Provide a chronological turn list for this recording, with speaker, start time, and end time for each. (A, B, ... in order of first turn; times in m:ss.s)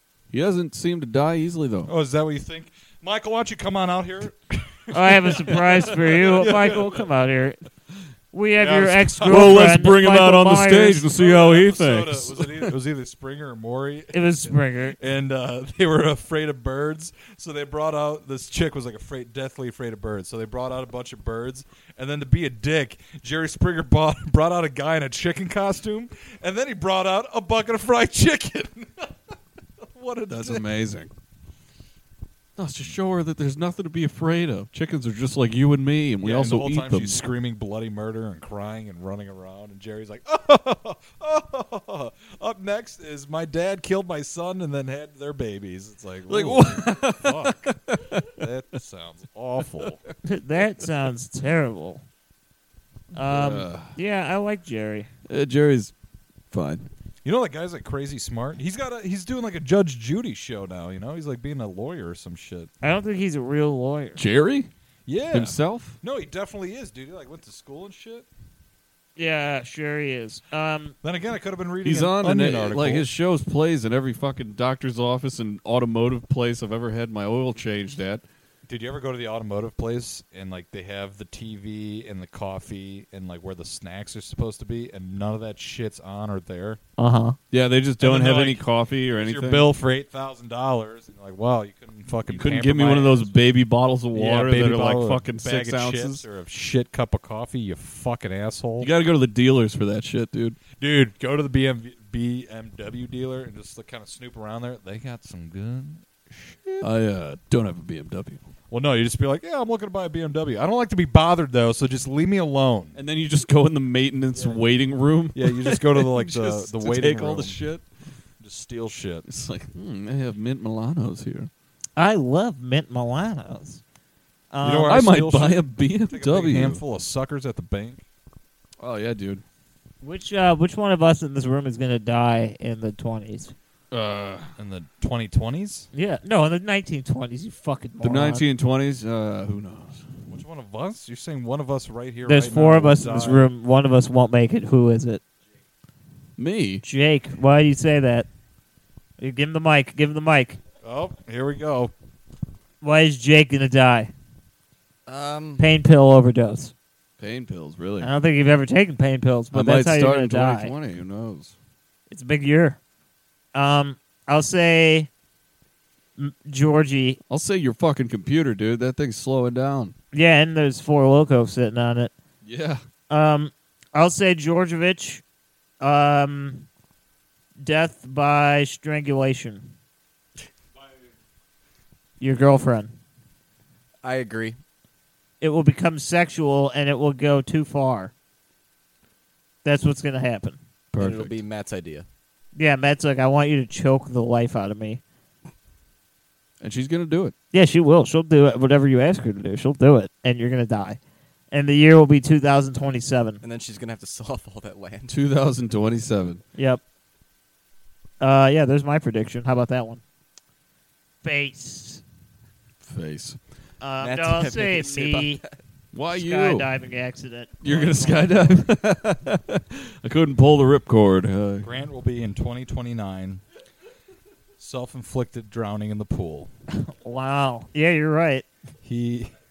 0:00.3-0:01.9 A
0:01.9-0:06.9 B
0:04.9-0:07.6 C
0:05.9-0:06.8 A
0:08.3-0:11.1 C
0:08.6-0:09.7 B
0:09.2-0:12.7 A
0:11.1-0:29.1 B
0:14.1-0:15.0 C
0:29.8-0:30.7 B
0:30.3-0:31.1 A
0:32.6-0:37.2 A
0:36.2-0:47.8 B
0:46.3-0:48.3 A
0:48.3-0:50.0 B
0:50.2-0:52.0 C
0:53.1-0:55.1 C
0:53.2-0:53.9 A
0:55.3-0:55.9 A
0:56.5-0:56.9 A
0:57.2-1:02.7 B
1:02.8-1:04.2 C
1:04.2-1:04.7 A
1:05.1-1:08.3 B
1:05.3-1:06.0 A
1:09.2-1:11.0 C
1:11.0-1:13.1 B
1:11.8-1:18.2 A
1:18.7-1:26.8 B
1:27.0-1:27.4 C
1:27.5-1:29.7 A
1:28.0-1:33.4 B
1:32.3-1:36.2 A
1:34.1-1:38.9 B
1:38.8-1:40.6 A
1:40.7-1:46.9 B
1:46.8-1:48.4 A
1:48.7-1:53.0 B
1:53.0-1:57.8 A
1:54.4-1:54.6 B
1:55.4-1:57.6 B
1:58.4-1:59.2 B
1:59.3-2:01.5 A
2:02.0-2:03.8 C
2:04.5-2:05.1 C
2:04.6-2:08.0 B
2:04.9-2:06.8 A
2:08.8-2:09.4 A
2:10.0-2:13.5 C
2:13.9-2:14.5 A
2:14.6-2:15.9 B
2:15.9-2:18.4 C
2:18.0-2:20.0 A
2:20.3-2:23.5 B
2:22.3-2:25.2 C
2:26.4-2:26.8 A
2:26.8-2:28.3 C
2:29.2-2:30.6 C
2:30.8-2:31.9 B
2:32.8-2:34.1 C
2:35.1-2:35.6 D
2:35.6-2:36.7 C
2:37.2-2:38.1 A
2:38.0-2:40.7 C
2:39.5-2:41.5 A
2:42.1-2:42.8 C
2:43.5-2:45.1 C
2:46.2-2:47.2 C
2:47.3-2:50.0 A
2:50.1-2:52.1 C
2:52.4-2:52.8 A
2:53.1-2:55.2 C
2:55.8-2:56.7 C
2:57.6-2:59.7 C
3:02.2-3:02.9 C
3:04.0-3:04.6 D
3:05.4-3:08.1 C
3:09.6-3:10.6 C
3:10.9-3:11.4 A
3:11.0-3:12.1 D
3:12.6-3:15.0 C
3:16.6-3:17.3 A
3:17.5-3:21.0 C
3:21.5-3:23.4 C
3:23.4-3:25.2 D
3:25.1-3:26.4 A
3:26.6-3:26.8 C
3:28.2-3:30.0 C
3:31.2-3:32.0 C
3:32.8-3:33.4 A
3:33.8-3:35.4 C
3:34.0-3:35.5 D
3:35.9-3:36.7 A
3:36.1-3:38.6 C
3:37.6-3:41.7 A
3:41.6-3:43.4 B
3:44.6-3:46.5 B
3:46.8-3:48.5 C
3:48.8-3:49.3 B